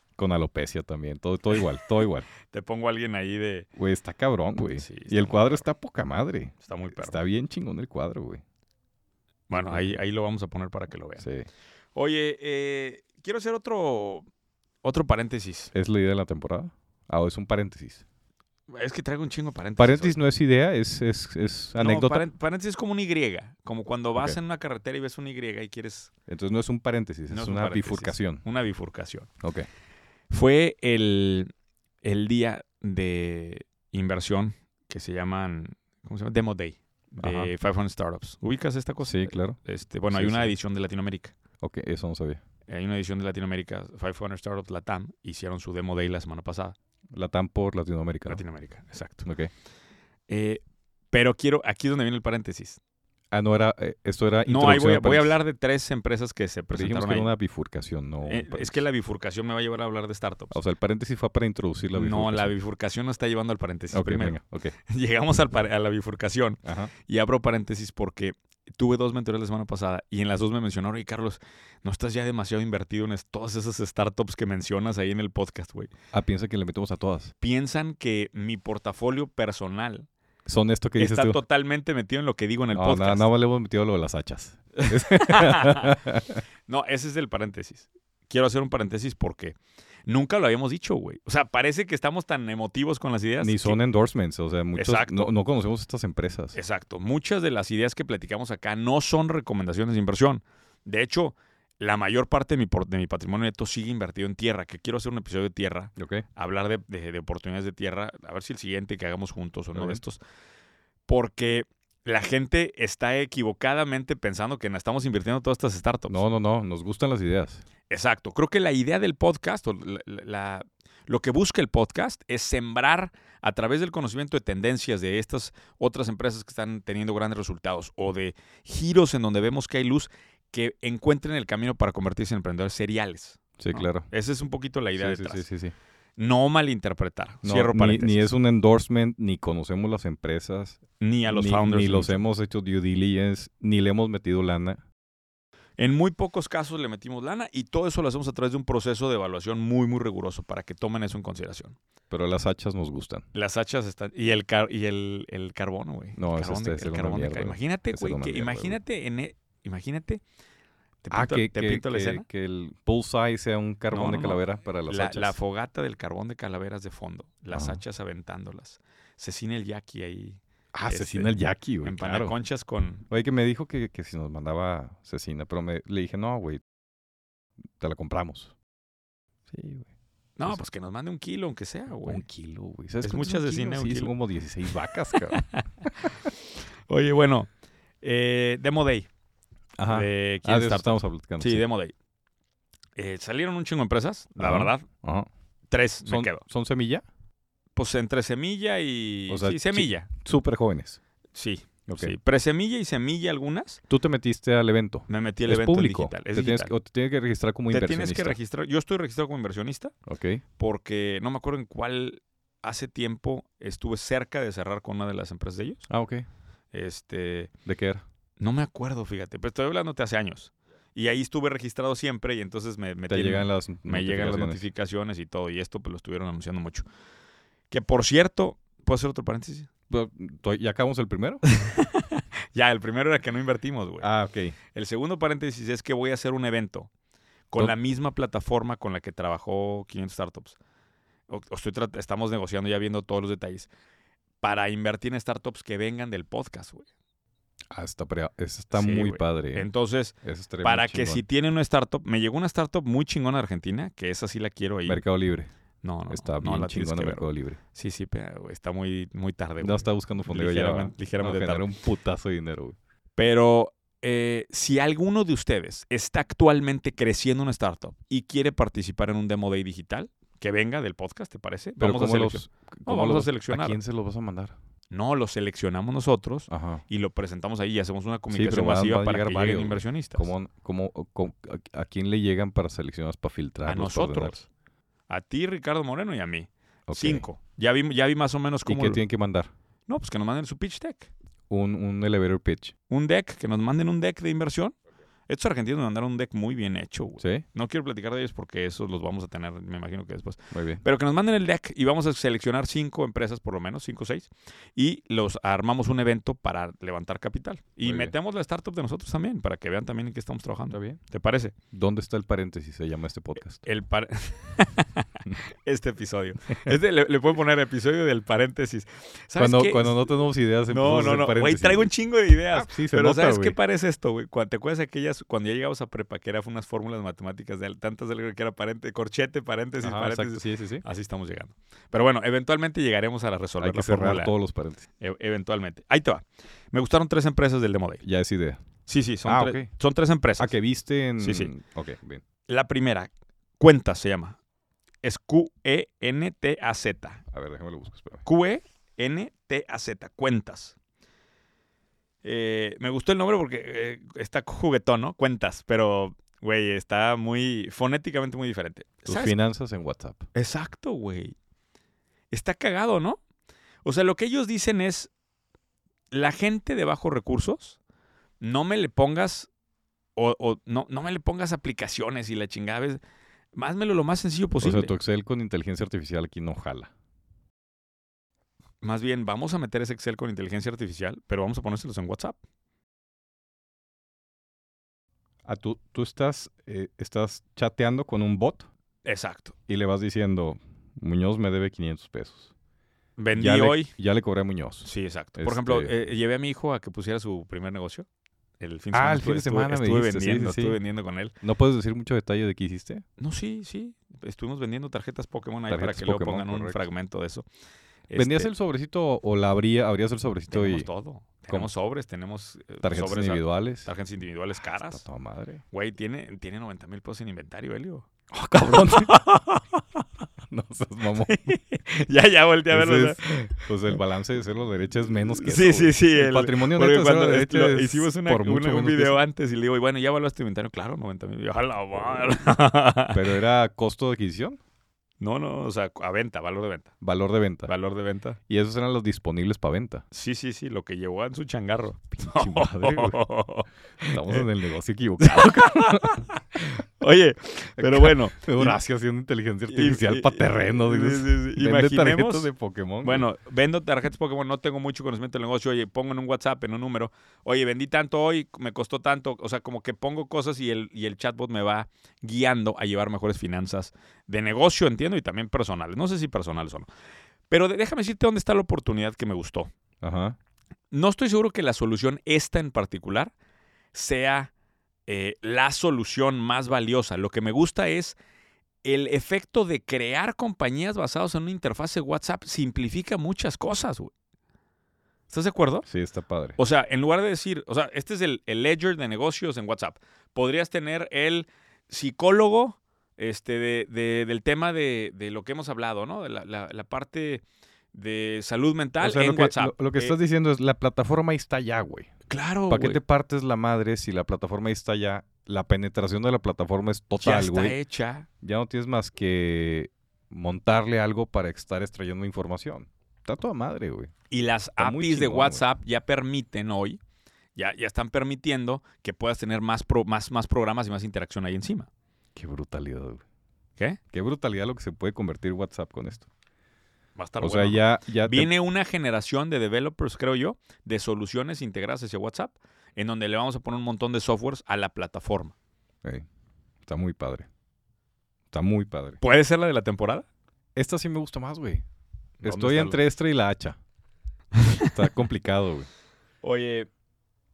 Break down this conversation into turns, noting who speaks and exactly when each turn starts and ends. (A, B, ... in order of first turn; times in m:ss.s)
0:00.2-0:02.3 A
0:02.5-0:03.7 B
0:03.8-0:08.4 A
0:04.7-0:05.6 B
0:06.6-0:07.2 B
0:09.5-0:11.3 B
0:09.5-0:10.0 A
0:11.2-0:11.5 A
0:12.0-0:14.3 B
0:14.8-0:15.7 B
0:15.7-0:18.0 A
0:18.7-0:20.2 B
0:19.8-0:22.2 A
0:21.8-0:26.1 B
0:26.3-0:28.4 A
0:27.3-0:29.3 B
0:29.4-0:29.7 A
0:30.3-0:31.5 B
0:32.0-0:41.4 B
0:37.2-0:37.5 A
0:39.0-0:39.6 A
0:40.1-0:40.6 A
0:41.6-0:42.4 A
0:42.7-0:46.8 B
0:47.1-0:48.4 A
0:48.3-0:49.3 B
0:49.2-0:49.5 A
0:50.3-0:52.8 B
0:53.3-0:55.4 A
0:54.5-0:57.3 B
0:56.7-0:58.9 A
0:58.3-1:00.6 B
1:00.5-1:02.5 A
1:01.9-1:15.9 B
1:03.9-1:04.8 A
1:06.6-1:06.9 A
1:16.1-1:17.3 A
1:17.4-1:20.1 B
1:20.5-1:21.4 A
1:21.0-1:23.3 B
1:22.7-1:26.4 A
1:24.8-1:26.0 B
1:26.7-1:33.8 B
1:33.4-1:36.6 A
1:34.8-1:35.3 B
1:36.5-1:50.2 B
1:46.0-1:46.2 A
1:49.7-1:50.0 A
1:51.1-1:56.2 B
1:56.1-1:57.6 A
1:57.9-2:15.5 B
2:13.6-2:14.1 A
2:15.0-2:15.7 A
2:16.2-2:18.3 B
2:17.4-2:24.8 A
2:21.0-2:22.2 B
2:25.8-2:31.8 B
2:32.1-2:33.2 A
2:33.3-2:40.2 B
2:36.2-2:38.8 A
2:41.0-2:42.3 B
2:41.1-2:45.4 A
2:43.9-2:53.0 B
2:47.5-2:47.8 A
2:50.7-2:52.4 A
2:53.1-2:56.6 A
2:57.8-2:58.5 A
2:59.5-2:59.9 A
3:00.4-3:02.2 B
3:02.1-3:06.1 A
3:03.0-3:04.1 B
3:04.7-3:05.6 B
3:06.9-3:07.5 B
3:08.0-3:09.1 B
3:09.8-3:11.6 A
3:09.9-3:12.0 B
3:13.0-3:14.9 B
3:14.4-3:15.3 A
3:15.7-3:16.4 B
3:16.1-3:17.0 A
3:17.8-3:20.1 B
3:19.3-3:21.0 A
3:21.3-3:23.8 B
3:21.9-3:22.2 A
3:23.9-3:28.4 A
3:25.1-3:26.7 B
3:27.7-3:29.9 B
3:30.1-3:30.4 A
3:30.6-3:35.9 B
3:35.9-3:36.3 A
3:36.7-3:37.5 B
3:37.6-3:38.0 A
3:38.4-3:46.9 B
3:43.1-3:44.6 A
3:47.7-3:49.7 B
3:49.9-3:51.4 A
3:51.5-3:54.1 B
3:54.0-3:54.6 A
3:54.7-3:56.9 B
3:57.5-4:00.6 B
4:01.3-4:03.7 B
4:04.4-4:06.9 B
4:07.7-4:09.7 A
4:08.7-4:15.0 B
4:10.2-4:11.2 A
4:14.9-4:15.5 A
4:15.8-4:21.7 B
4:16.1-4:17.6 A
4:19.6-4:22.8 A
4:23.2-4:33.8 B
4:31.8-4:34.5 A
4:34.9-4:40.3 B
4:36.5-4:36.8 A
4:38.3-4:44.4 A
4:43.7-4:44.5 B
4:45.1-4:49.0 B
4:46.9-4:47.2 A
4:48.7-4:49.5 A
4:49.9-4:51.1 B
4:51.5-4:52.7 A
4:52.9-4:54.8 B
4:55.3-5:11.5 B
5:00.5-5:00.8 A
5:07.8-5:08.1 A
5:10.7-5:11.0 A
5:11.7-5:13.7 A
5:13.6-5:20.1 B
5:19.4-5:21.9 A
5:20.7-5:34.3 B
5:22.5-5:23.6 A
5:29.8-5:30.8 A
5:33.6-5:34.9 A
5:35.0-5:38.0 B
5:38.0-5:38.6 A
5:38.9-5:40.6 B
5:39.2-5:39.7 A
5:40.4-5:42.2 A
5:41.2-5:41.5 B
5:42.5-5:44.4 B
5:45.0-5:47.2 B
5:47.3-5:48.2 A
5:48.2-5:50.8 B
5:52.2-5:59.4 B
5:59.0-6:00.2 A
6:00.3-6:01.4 B
6:02.3-6:03.2 B
6:03.8-6:05.1 B
6:06.1-6:07.8 B
6:08.4-6:09.5 B
6:10.2-6:13.0 B
6:13.5-6:14.9 B
6:14.6-6:16.9 A
6:18.8-6:22.4 B
6:25.4-6:28.7 A
6:29.0-6:29.6 B
6:29.7-6:32.5 A
6:33.2-6:33.9 B
6:33.4-6:35.9 A
6:34.8-6:38.1 B
6:38.6-6:41.4 B
6:38.9-6:40.8 A
6:41.4-6:43.0 A
6:43.2-6:47.5 B
6:45.7-6:46.9 A
6:48.1-6:48.5 B
6:48.2-6:50.9 A
6:50.5-6:55.0 B
6:52.8-6:53.9 A
6:54.8-6:55.6 A
6:55.7-6:59.6 B
6:58.3-6:59.3 A
7:00.5-7:01.6 A
7:01.2-7:03.6 B
7:02.7-7:09.2 A
7:05.4-7:13.3 B
7:13.1-7:14.6 A
7:15.2-7:16.9 B
7:17.0-7:17.7 A
7:17.7-7:18.4 B
7:18.5-7:20.0 A
7:20.1-7:24.4 B
7:22.2-7:23.2 A
7:24.1-7:26.3 A
7:25.2-7:28.8 B
7:27.8-7:33.3 A
7:29.7-7:32.5 B
7:33.0-7:46.9 B
7:47.5-7:49.7 B
7:50.0-7:50.4 A
7:50.9-7:53.3 B
7:53.9-7:54.5 B
7:55.1-7:58.2 B
7:58.8-8:04.1 B
8:05.3-8:05.9 B
8:05.9-8:06.6 A
8:06.6-8:20.2 B
8:19.0-8:22.1 A
8:22.3-8:23.0 B
8:22.7-8:27.8 A
8:27.2-8:28.3 B
8:28.4-8:34.1 A
8:34.3-8:37.0 B
8:34.8-8:35.6 A
8:37.6-8:41.9 B
8:42.4-8:43.2 A
8:44.1-8:46.3 A
8:47.2-8:55.5 B
8:47.4-8:48.5 A
8:56.8-8:57.5 A
8:58.5-8:59.2 A
8:59.2-9:00.3 B
9:00.8-9:01.8 A
9:02.4-9:03.0 B
9:02.4-9:03.8 A
9:04.5-9:05.0 B
9:04.8-9:05.9 A
9:06.4-9:06.9 B